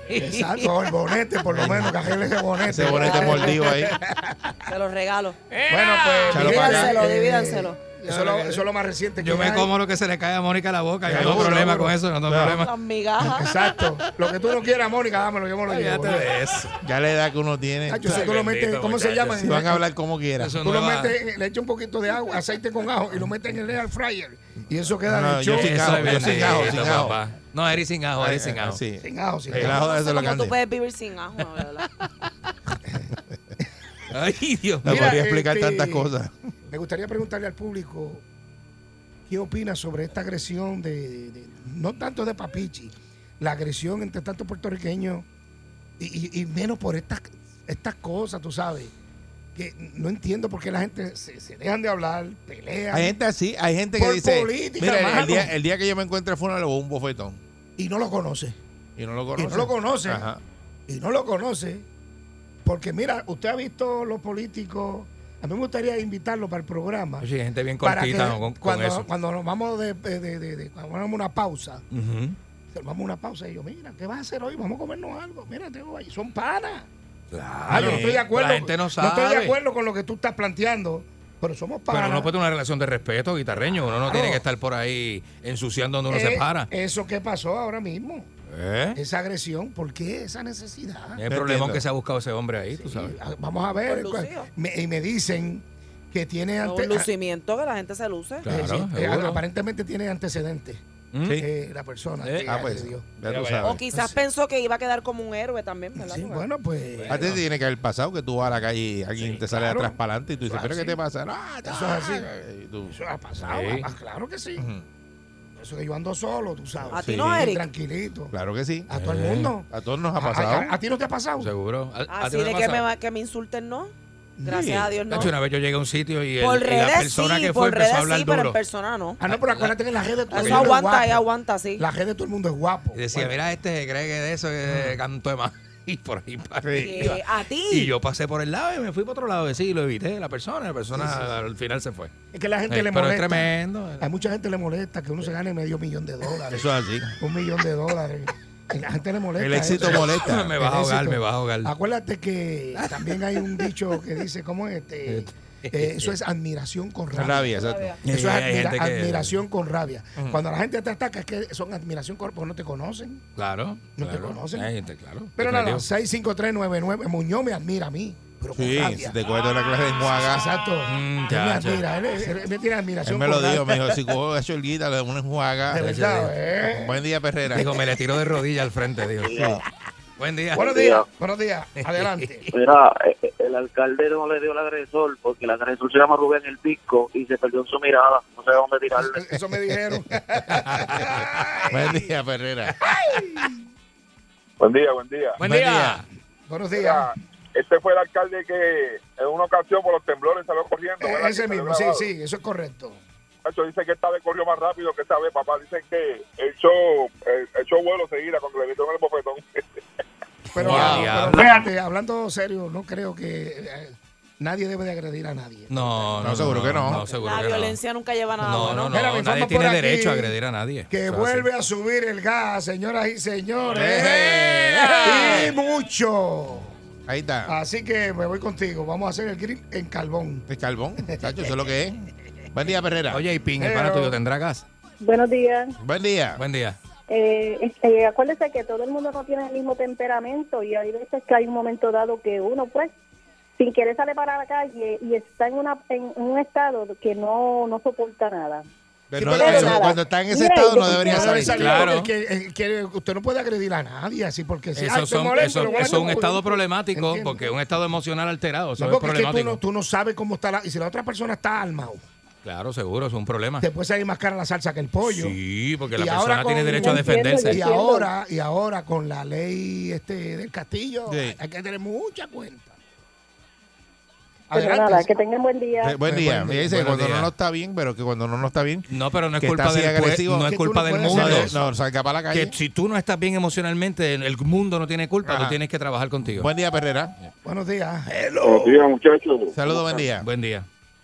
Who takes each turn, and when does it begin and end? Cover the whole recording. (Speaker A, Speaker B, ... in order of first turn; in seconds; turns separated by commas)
Speaker A: 0.1-0.8, Speaker B: 0.1-4.6, Speaker C: 1.5-2.0, Speaker C: 2.6-3.9, Speaker A: 2.9-3.6, Speaker A: 4.7-5.3, Speaker D: 5.5-6.6, Speaker B: 5.7-9.7, Speaker C: 6.3-7.0, Speaker A: 6.4-7.8, Speaker D: 8.0-8.7, Speaker D: 9.2-12.7, Speaker C: 11.1-12.6, Speaker B: 11.1-11.9, Speaker A: 12.5-13.6, Speaker B: 13.2-16.4, Speaker D: 13.8-14.4, Speaker D: 15.7-16.8, Speaker C: 16.8-18.3, Speaker B: 17.9-19.9, Speaker D: 18.0-19.6, Speaker C: 19.4-20.6, Speaker D: 20.4-21.2, Speaker B: 20.6-27.0, Speaker C: 25.1-27.2, Speaker D: 25.5-28.8, Speaker C: 28.2-30.6, Speaker B: 29.0-29.8, Speaker D: 29.5-29.8, Speaker A: 29.7-31.8, Speaker D: 31.7-32.1, Speaker D: 34.1-35.1, Speaker C: 34.8-36.3, Speaker B: 34.8-36.1, Speaker B: 36.7-38.2, Speaker B: 39.3-45.2, Speaker B: 46.0-48.9, Speaker B: 49.5-53.2, Speaker C: 52.9-57.4, Speaker B: 53.9-55.5, Speaker B: 57.8-58.5, Speaker C: 59.0-60.4, Speaker B: 59.4-60.3, Speaker B: 60.9-61.8, Speaker B: 62.6-67.3, Speaker D: 67.2-69.1, Speaker B: 67.8-71.8, Speaker D: 71.9-72.3, Speaker B: 72.7-76.9, Speaker D: 77.3-79.5, Speaker B: 77.7-82.3, Speaker C: 77.7-78.2, Speaker D: 81.9-86.7, Speaker B: 83.9-84.5, Speaker B: 86.1-88.3, Speaker D: 88.5-89.0, Speaker B: 88.9-91.2, Speaker D: 91.1-93.1, Speaker C: 91.3-91.8, Speaker B: 92.7-97.1, Speaker A: 93.8-94.5, Speaker A: 96.6-98.6, Speaker D: 98.4-99.4, Speaker B: 98.5-100.8, Speaker D: 101.1-101.5, Speaker B: 101.3-103.1, Speaker D: 102.2-103.8, Speaker C: 102.4-103.7, Speaker A: 103.6-106.5, Speaker B: 103.9-104.2, Speaker B: 105.9-107.3, Speaker D: 106.9-107.4, Speaker C: 107.1-113.0, Speaker B: 109.3-111.0, Speaker B: 111.6-112.3, Speaker B: 112.9-114.7, Speaker D: 113.4-113.9, Speaker C: 114.6-114.8, Speaker B: 115.6-118.3, Speaker A: 116.9-117.7, Speaker C: 117.0-117.5, Speaker C: 118.3-118.9, Speaker B: 118.9-121.5, Speaker D: 118.9-119.6, Speaker C: 119.7-120.7, Speaker D: 121.4-122.9, Speaker A: 122.1-125.3, Speaker B: 124.4-124.7, Speaker C: 124.5-124.9, Speaker D: 125.1-128.6, Speaker A: 126.4-129.2, Speaker B: 129.2-133.4, Speaker D: 129.3-130.8, Speaker A: 130.3-131.9, Speaker D: 132.9-142.1, Speaker C: 136.6-137.1, Speaker A: 136.7-137.9, Speaker B: 140.9-141.3, Speaker B: 142.3-163.2, Speaker D: 142.7-144.1, Speaker C: 146.5-147.1, Speaker C: 149.4-150.5, Speaker D: 149.8-151.7, Speaker D: 152.8-153.6, Speaker D: 155.1-156.1, Speaker D: 157.1-157.5, Speaker C: 157.1-157.9, Speaker D: 158.0-159.4, Speaker D: 163.3-165.8, Speaker B: 164.0-164.7, Speaker B: 165.3-169.2, Speaker C: 168.5-170.4, Speaker B: 170.0-173.9, Speaker D: 170.8-171.9, Speaker C: 173.0-175.9, Speaker B: 175.7-177.0, Speaker D: 175.7-176.4, Speaker C: 176.7-177.7, Speaker D: 177.5-179.6, Speaker C: 179.2-179.6, Speaker D: 180.2-180.8, Speaker B: 180.5-182.5, Speaker E: 182.6-189.1, Speaker B: 188.9-192.0, Speaker D: 190.5-191.3, Speaker C: 191.7-192.7, Speaker B: 192.8-193.5, Speaker F: 194.6-195.4, Speaker D: 195.4-196.0, Speaker C: 195.4-196.0, Speaker B: 196.5-197.1, Speaker F: 196.7-202.1, Speaker B: 201.0-203.0, Speaker F: 203.4-209.6, Speaker B: 210.5-217.0, Speaker D: 210.6-211.7, Speaker F: 210.7-211.1, Speaker D: 215.7-217.8, Speaker C: 216.2-217.0, Speaker A: 217.0-219.0, Speaker D: 218.4-221.5, Speaker B: 218.8-220.3, Speaker B: 220.9-226.7, Speaker C: 223.7-225.4, Speaker D: 223.8-225.5, Speaker C: 227.1-227.5, Speaker B: 227.4-230.4, Speaker C: 230.5-233.2, Speaker B: 231.0-231.5, Speaker D: 233.1-234.6, Speaker B: 233.6-234.2, Speaker G: 235.0-235.7, Speaker C: 235.8-236.4, Speaker D: 236.3-236.8, Speaker G: 237.1-242.9, Speaker G: 243.6-248.6, Speaker C: 249.1-251.6, Speaker B: 249.2-249.9, Speaker G: 249.2-251.9, Speaker B: 250.8-257.6, Speaker D: 251.5-252.1, Speaker D: 254.7-259.6, Speaker G: 255.4-256.2, Speaker B: 258.8-262.0, Speaker D: 262.4-263.7, Speaker B: 263.6-265.4, Speaker D: 265.0-267.6, Speaker B: 265.9-272.7, Speaker G: 266.6-268.1, Speaker C: 271.1-271.4, Speaker B: 274.5-275.1, Speaker G: 274.5-276.0, Speaker C: 275.8-278.9, Speaker B: 276.0-276.7, Speaker D: 276.7-277.3, Speaker D: 278.9-281.6, Speaker C: 279.4-282.6, Speaker B: 280.4-281.6, Speaker D: 282.3-286.5, Speaker C: 285.2-285.6, Speaker C: 286.2-287.1, Speaker B: 287.4-288.9, Speaker F: 288.4-290.1, Speaker C: 289.5-290.3, Speaker D: 290.2-290.6